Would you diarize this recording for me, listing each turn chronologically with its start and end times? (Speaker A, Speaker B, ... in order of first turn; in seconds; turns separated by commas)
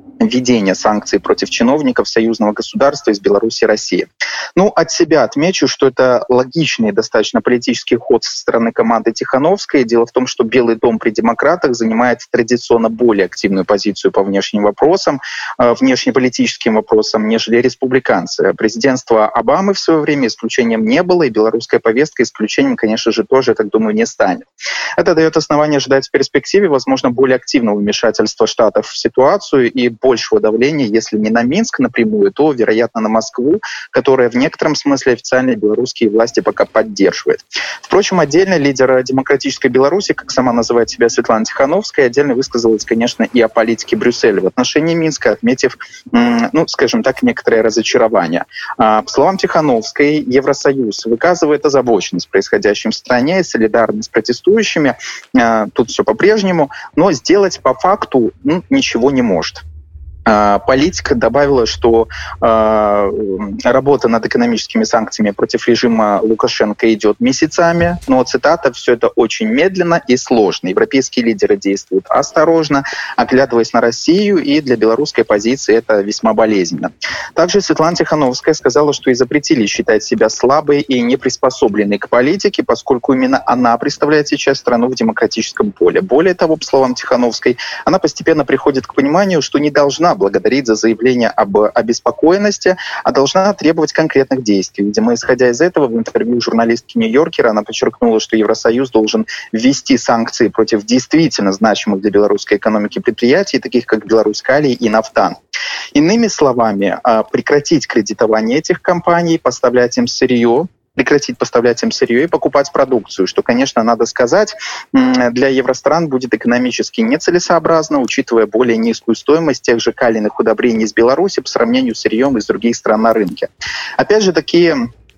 Speaker A: 0.2-59.6, Speaker A: 60.2-105.3, Speaker A: 105.9-124.9